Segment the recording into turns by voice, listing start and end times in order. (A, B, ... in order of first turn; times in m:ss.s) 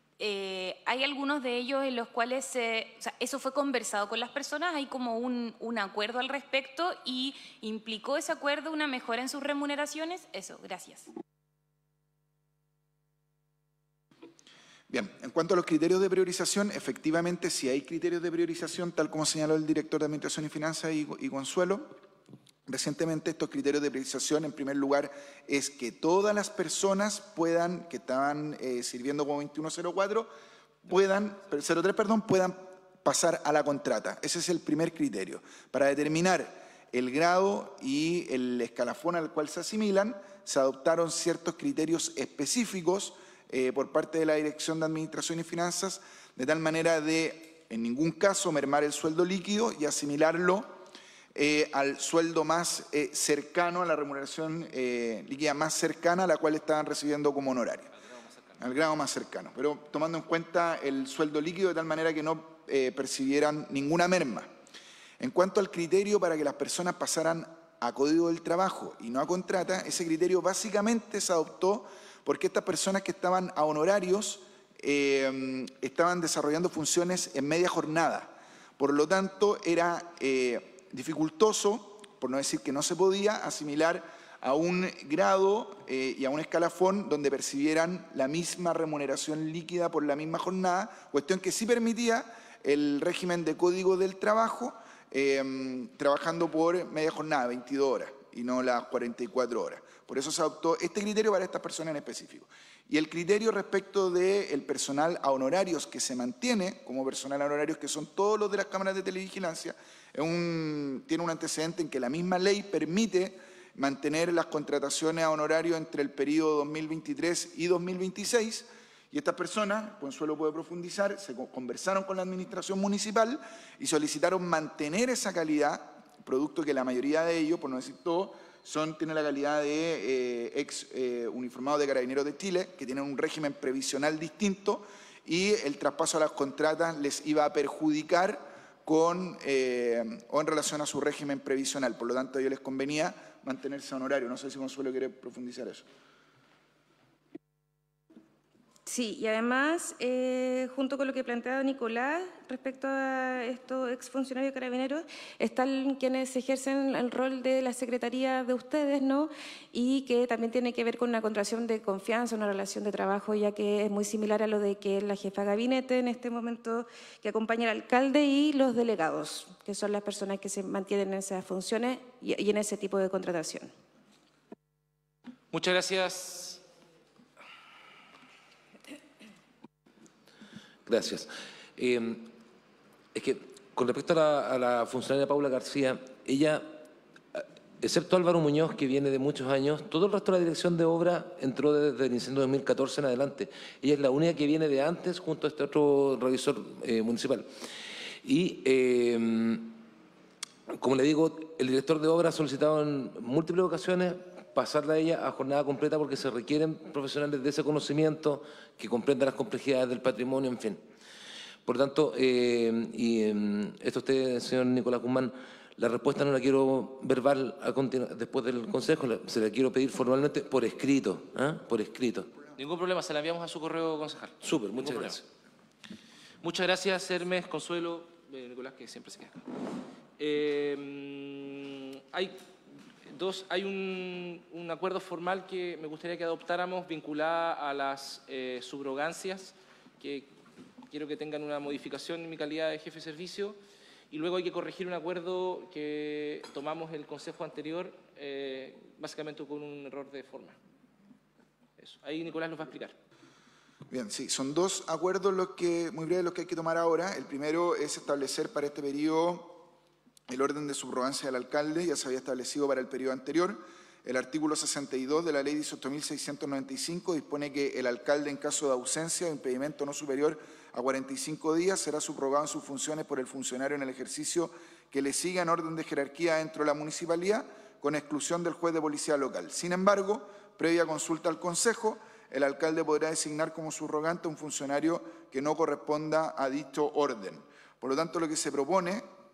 0:00.2-0:11.1 A
0:14.9-0:22.0 B
0:22.7-0:30.3 B
0:30.8-0:50.8 B
0:51.4-0:57.9 B
0:58.0-0:58.6 C
0:58.6-1:04.5 B
1:05.2-2:25.9 B
2:28.9-2:53.7 D
2:55.5-2:56.6 C
3:00.9-3:02.3 E
3:03.1-3:06.8 E
3:07.4-3:17.5 E
3:18.2-3:19.8 E
3:20.7-3:30.8 E
3:31.6-3:42.3 E
3:42.6-3:45.2 C
3:44.4-3:45.2 E
3:46.4-3:49.4 C
3:50.2-3:52.4 C
3:53.1-4:00.3 C
4:00.9-4:03.6 C
4:04.1-4:10.6 C
4:11.8-4:13.0 C
4:13.9-4:19.6 B
4:20.3-4:49.1 B